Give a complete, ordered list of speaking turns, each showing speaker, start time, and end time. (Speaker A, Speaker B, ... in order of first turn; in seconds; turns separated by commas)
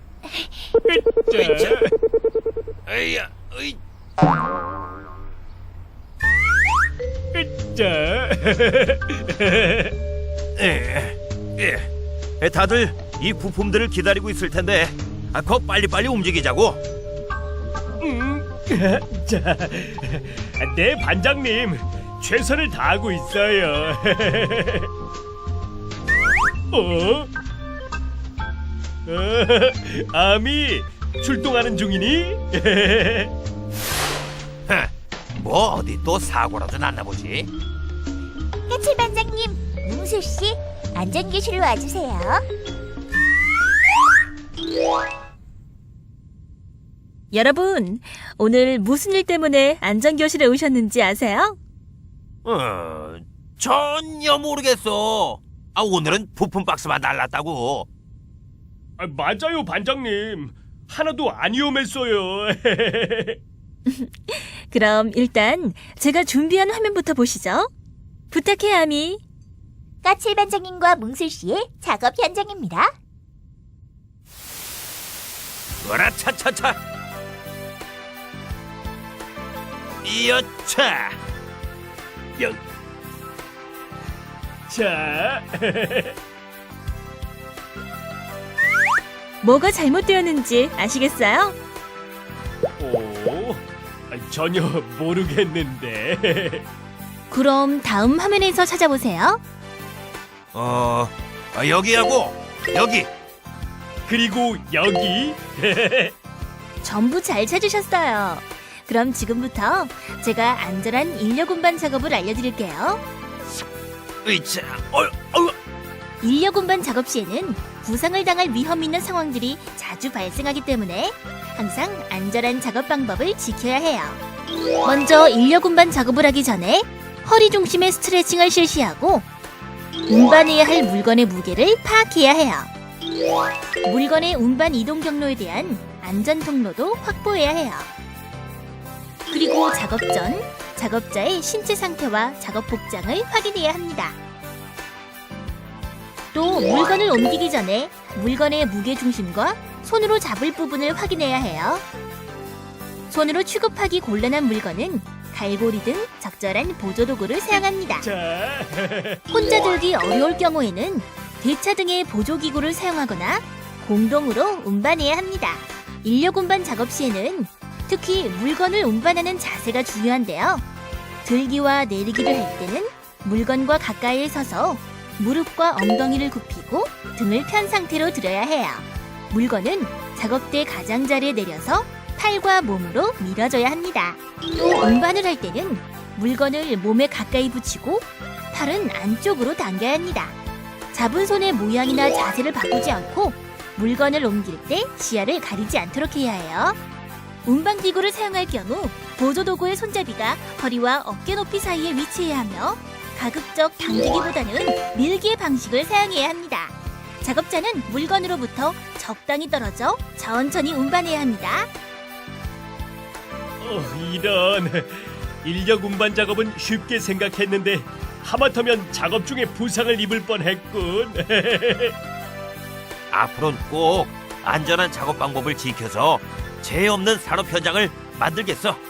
Speaker A: 0.2-0.7, Speaker B: 0.9-1.9, Speaker C: 1.3-1.8, Speaker C: 2.9-3.8, Speaker B: 7.3-9.9, Speaker C: 10.6-11.9, Speaker C: 12.4-16.8, Speaker B: 18.0-24.9, Speaker B: 26.7-27.3, Speaker B: 29.1-33.3, Speaker C: 34.7-37.5, Speaker A: 38.7-42.4, Speaker D: 47.3-51.6, Speaker C: 52.5-57.9, Speaker B: 59.0-63.4, Speaker D: 63.9-67.7, Speaker D: 68.3-69.2, Speaker A: 70.0-72.9, Speaker C: 75.8-76.8, Speaker C: 80.0-81.2, Speaker B: 84.7-86.2, Speaker D: 89.4-91.6, Speaker B: 92.8-96.6, Speaker D: 97.3-99.4, Speaker C: 100.5-103.1, Speaker B: 104.1-106.1, Speaker D: 106.8-113.0, Speaker C: 114.2-115.5, Speaker D: 116.2-124.2, Speaker D: 124.8-129.3, Speaker D: 130.1-132.7, Speaker D: 133.8-137.9, Speaker D: 139.3-144.2, Speaker D: 146.3-151.8, Speaker D: 153.1-158.1, Speaker B: 158.0-159.2, Speaker D: 159.3-170.6, Speaker D: 171.2-190.4, Speaker D: 190.9-196.8, Speaker D: 197.4-211.7, Speaker B: 213.6-221.9, Speaker C: 223.1-228.8